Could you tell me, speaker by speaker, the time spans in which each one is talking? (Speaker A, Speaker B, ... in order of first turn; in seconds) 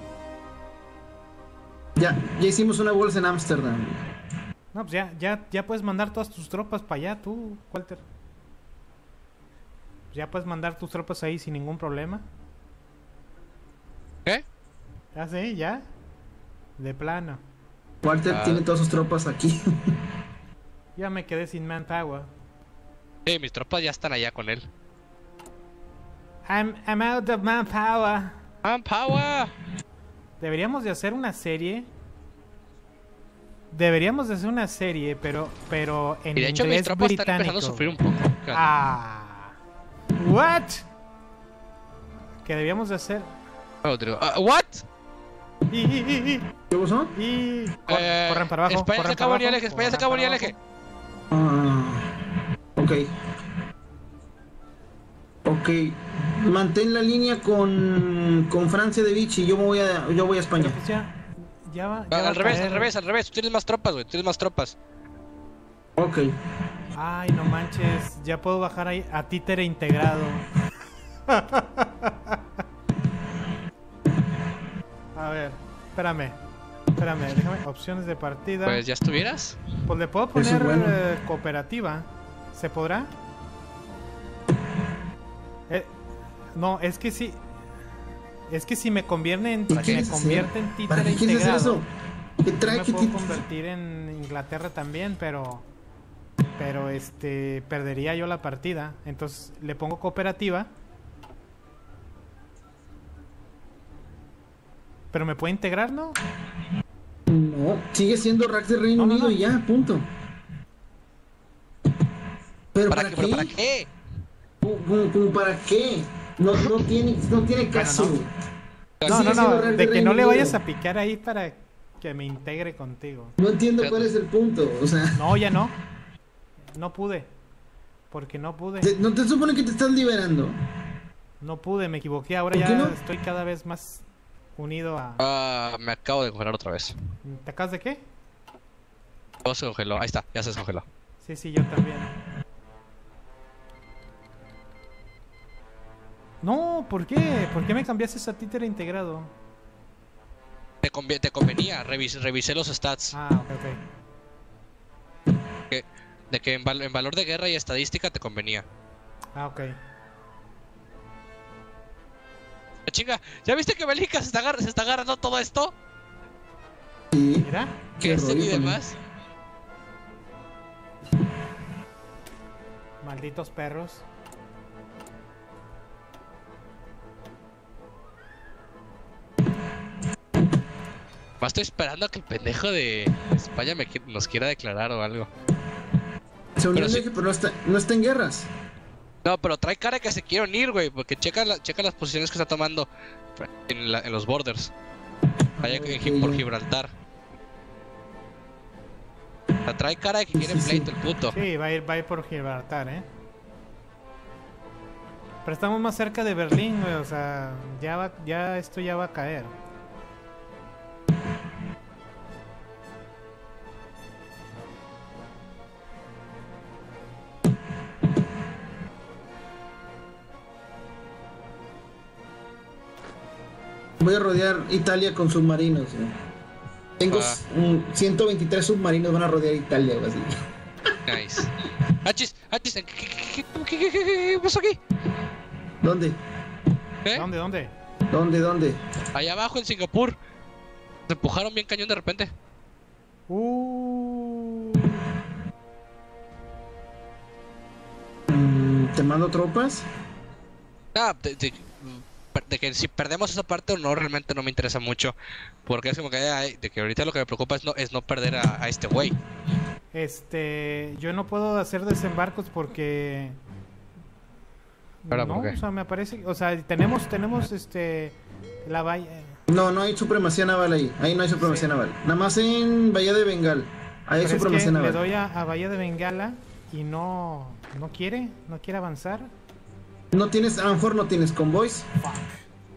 Speaker A: 2.0-4.0, 18.0-19.9, 46.7-47.1, 51.3-52.1, 52.8-53.1, 55.5-60.8, 66.0-66.3, 80.3-81.0, 89.7-91.9, 92.4-93.4, 107.3-110.1, 112.7-113.5, 114.6-118.3, 119.1-120.6, 123.4-125.2, 128.8-130.6, 132.5-133.0, 167.1-168.8, 186.6-188.5, 195.6-196.4, 200.3-200.9, 224.0-226.1, 227.0-230.3, 235.8-236.2, 238.1-238.8, 248.3-249.9, 269.5-275.0, 280.1-281.9
Speaker B: 4.7-8.0, 10.1-12.3, 15.1-15.9, 16.8-17.4, 21.0-22.3, 26.5-28.4, 30.4-31.9, 33.7-38.0, 38.5-39.5, 40.2-40.9, 42.5-43.3, 45.7-46.5, 47.1-50.6, 60.6-62.9, 67.0-70.5, 71.3-72.4, 75.2-76.4, 77.0-78.8, 79.9-83.1, 86.5-87.4, 88.5-91.8, 92.7-95.7, 96.6-100.7, 105.1-106.2, 109.0-109.4, 117.7-118.2, 119.1-123.3, 125.2-125.8, 126.7-127.3, 128.1-128.9, 131.4-134.1, 134.6-135.2, 137.2-138.1, 141.2-142.1, 146.4-149.3, 153.1-153.8, 159.3-159.8, 167.4-167.8, 173.0-174.1, 201.3-203.1, 205.4-209.5, 237.2-237.8, 243.3-245.0, 259.9-263.4, 265.0-269.4, 271.4-271.7, 274.2-279.3, 282.0-282.4
Speaker C: 18.3-18.6, 23.3-24.7, 28.6-29.5, 36.4-38.7, 43.8-44.9, 47.9-50.5, 62.1-64.8, 78.7-79.6, 89.7-90.0, 112.9-113.9, 119.0-119.4, 123.8-124.1, 135.2-137.0, 139.4-140.8, 150.8-153.2, 155.7-158.7, 162.9-165.7, 168.0-169.0, 181.4-185.3, 186.8-187.0, 189.2-194.7, 195.6-196.9, 199.7-201.4, 227.1-227.4, 231.1-231.5, 232.0-234.8, 239.1-240.2, 241.1-242.3, 250.9-255.2, 255.7-259.2, 265.1-265.6